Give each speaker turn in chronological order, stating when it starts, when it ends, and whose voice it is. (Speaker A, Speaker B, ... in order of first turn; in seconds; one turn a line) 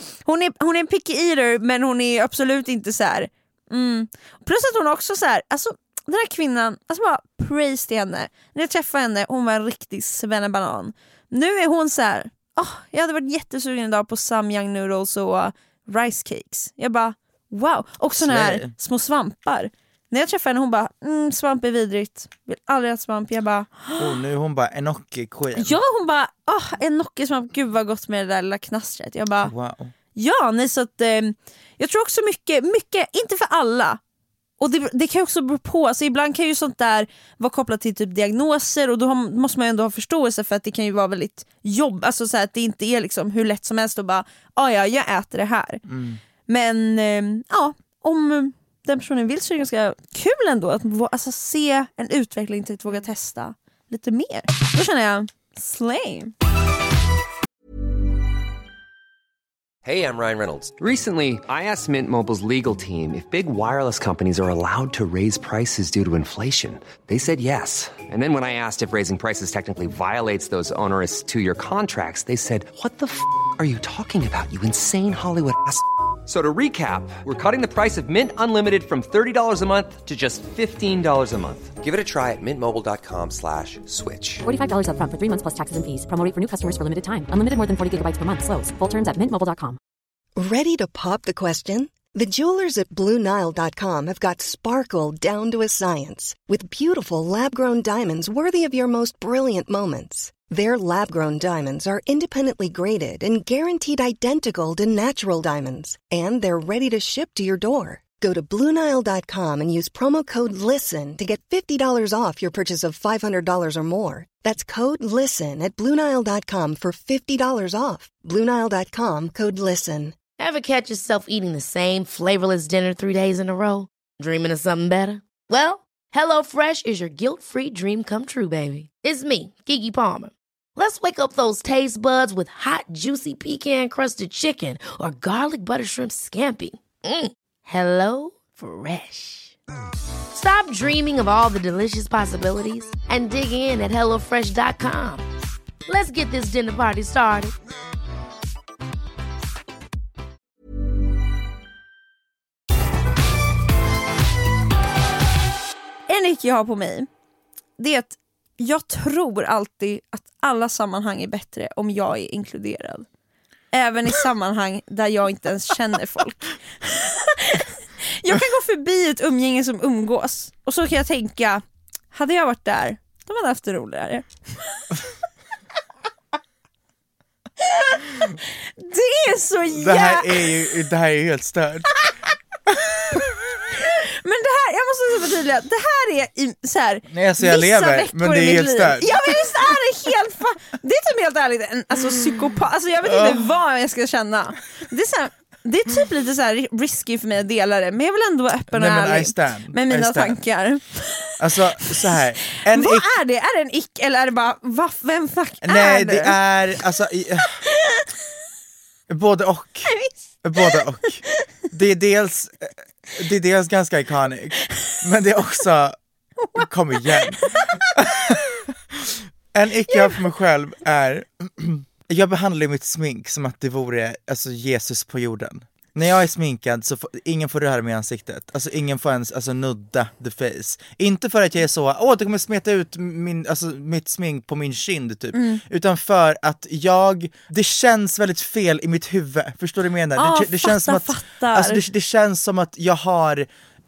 Speaker A: 0.2-24.1
Speaker B: 18.2-18.7
Speaker B: 24.0-25.8
Speaker A: 25.6-29.5
Speaker B: 29.4-29.9
Speaker A: 30.1-34.0
Speaker A: 34.6-45.8
Speaker B: 45.8-46.2
Speaker A: 46.5-56.3
Speaker C: 59.8-84.4
Speaker D: 84.4-89.8
Speaker E: 90.4-120.1
Speaker F: 120.4-139.6
Speaker F: 140.3-145.2
Speaker F: 145.9-147.5
Speaker A: 156.1-157.1
Speaker A: 157.8-163.1
Speaker A: 163.7-174.8
Speaker A: 177.6-180.4
Speaker B: 179.7-182.1
Speaker B: 182.7-183.3
Speaker A: 183.8-201.3
Speaker B: 187.1-189.5
Speaker B: 193.0-193.4
Speaker B: 198.7-200.4
Speaker B: 201.4-203.1
Speaker A: 202.6-206.4
Speaker B: 205.6-207.6
Speaker B: 209.1-215.9
Speaker A: 209.9-210.8
Speaker A: 216.4-217.8
Speaker B: 216.5-243.5
Speaker A: 219.9-220.2
Speaker A: 235.3-235.6
Speaker A: 240.2-241.8